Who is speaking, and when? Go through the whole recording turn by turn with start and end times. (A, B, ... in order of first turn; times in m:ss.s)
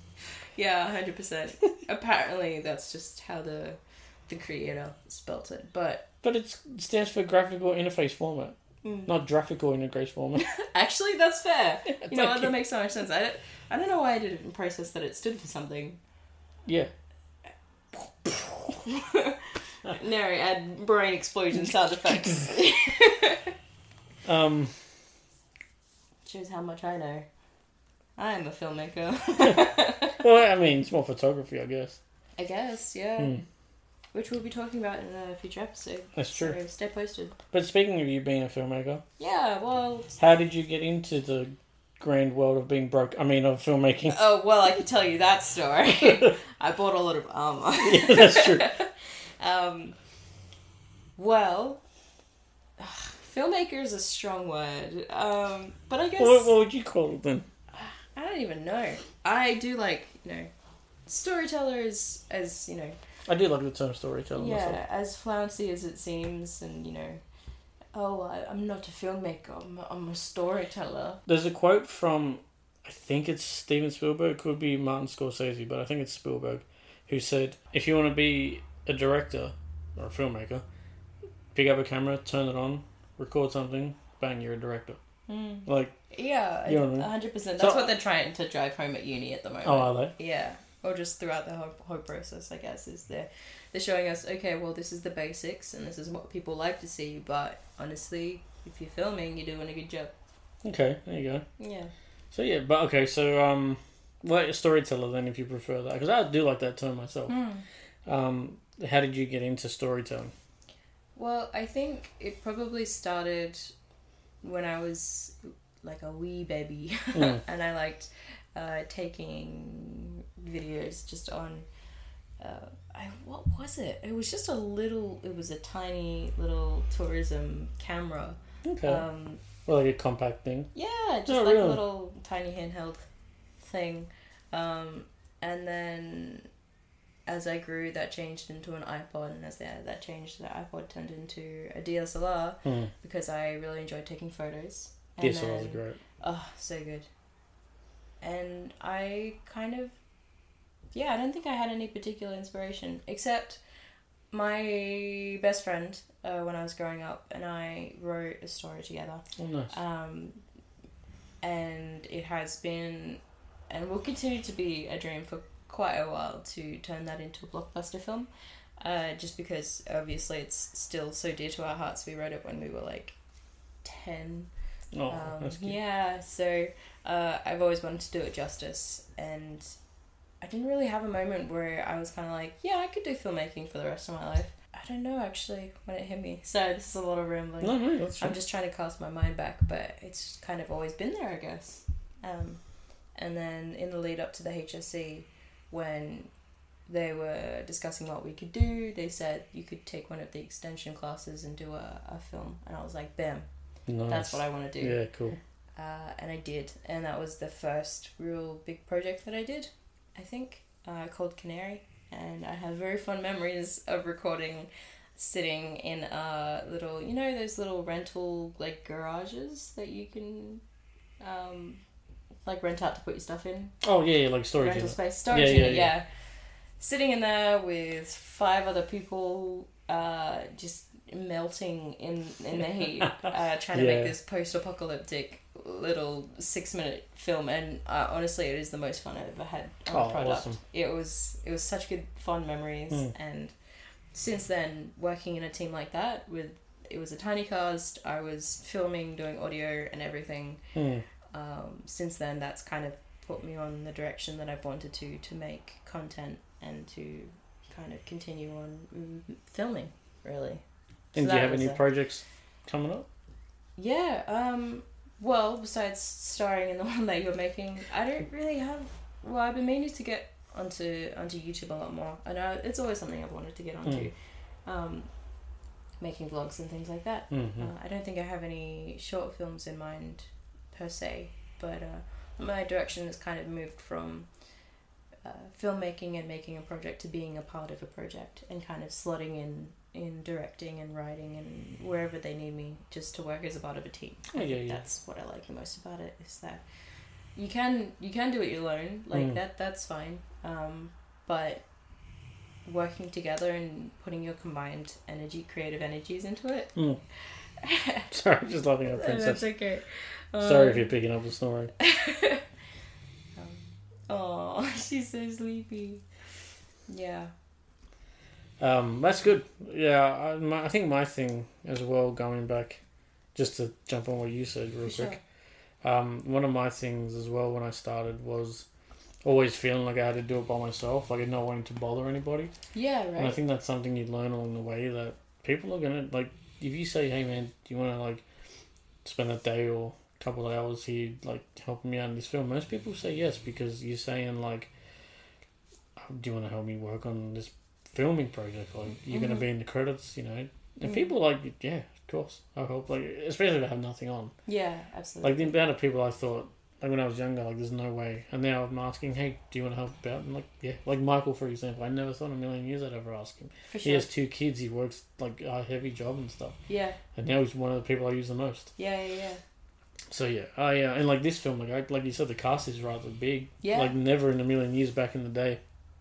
0:00.6-0:06.1 A
0:06.2-0:10.5 B
0:08.8-0:09.1 A
0:10.4-0:16.0 A
0:11.9-0:12.6 B
0:18.2-0:18.8 B
0:18.8-0:23.5 A
0:22.1-0:22.5 B
0:24.2-0:24.8 B
0:26.2-0:27.3 A
0:28.2-0:30.2 A
0:30.2-0:32.0 B
0:32.4-0:33.4 A
0:33.2-0:33.4 B
0:34.1-0:37.4 A
0:36.2-0:36.6 B
0:37.5-0:39.0 B
0:39.2-0:40.2 A
0:40.2-0:44.2 B
0:44.1-0:50.0 A
0:46.0-0:46.3 B
0:47.8-0:48.7 B
0:51.2-0:51.8 A
0:52.8-0:56.5 A
0:56.2-0:57.5 B
0:57.7-1:00.5 A
1:01.1-1:03.0 A
1:03.3-1:04.8 B
1:04.4-1:07.2 A
1:07.9-1:11.2 A
1:11.3-1:20.6 B
1:21.5-1:25.0 B
1:25.3-1:40.1 A
1:25.7-1:26.0 B
1:26.7-1:27.9 B
1:29.6-1:30.1 B
1:40.6-1:41.4 B
1:41.6-1:41.9 A
1:42.3-1:47.3 B
1:47.3-1:47.6 A
1:48.1-1:50.3 B
1:51.2-1:53.7 A
1:54.4-2:01.7 A
1:57.1-1:57.4 B
2:02.4-2:09.4 A
2:08.6-2:09.0 B
2:09.6-2:10.7 B
2:10.8-2:13.0 A
2:11.3-2:11.8 B
2:13.6-2:16.5 A
2:17.3-2:27.1 A
2:22.6-2:22.9 B
2:25.2-2:26.0 B
2:28.2-2:30.0 A
2:30.9-2:33.6 A
2:34.3-2:40.4 A
2:39.4-2:39.7 B
2:41.4-2:53.2 A
2:53.8-2:54.5 A
2:54.9-2:55.8 B
2:55.1-2:59.7 A
3:00.4-3:12.6 A
3:07.6-3:08.4 B
3:13.2-3:16.3 A
3:16.9-3:23.5 A
3:23.9-3:25.4 B
3:24.1-3:25.0 A
3:25.8-3:40.6 A
3:41.2-3:41.8 A
3:42.4-3:43.8 A
3:43.8-3:45.9 B
3:44.6-3:46.1 A
3:46.8-4:03.5 A
3:53.7-3:54.1 B
3:59.9-4:00.6 B
4:04.1-4:10.6 A
4:10.8-4:11.0 B
4:11.3-4:20.6 A
4:21.1-4:21.8 A
4:21.1-4:23.1 B
4:23.8-4:34.1 A
4:33.8-4:34.1 B
4:34.7-4:35.1 A
4:36.0-4:44.3 A
4:37.3-4:37.7 B
4:45.2-4:56.6 A
4:54.3-4:54.8 B
4:57.4-5:01.6 A
4:59.1-4:59.4 B
5:02.7-5:06.8 A
5:06.8-5:07.0 B
5:07.6-5:08.1 A
5:08.1-5:09.5 B
5:08.8-5:11.0 A
5:10.4-5:11.7 B
5:11.8-5:12.4 A
5:13.4-5:16.0 A
5:16.9-5:17.3 A
5:18.6-5:22.8 B
5:23.4-5:25.2 B
5:24.8-5:25.2 A
5:25.8-5:28.6 B
5:29.2-5:32.5 B
5:32.7-5:33.4 A
5:33.2-5:38.2 B
5:39.0-5:44.7 B
5:46.0-5:54.3 B
5:49.1-5:49.4 A
5:50.8-5:51.1 A
5:54.5-5:55.5 A
5:55.2-6:06.6 B
6:03.7-6:04.1 A
6:06.7-6:07.0 A
6:07.2-6:08.7 B
6:08.8-6:09.4 A
6:10.1-6:15.6 B
6:13.6-6:13.9 A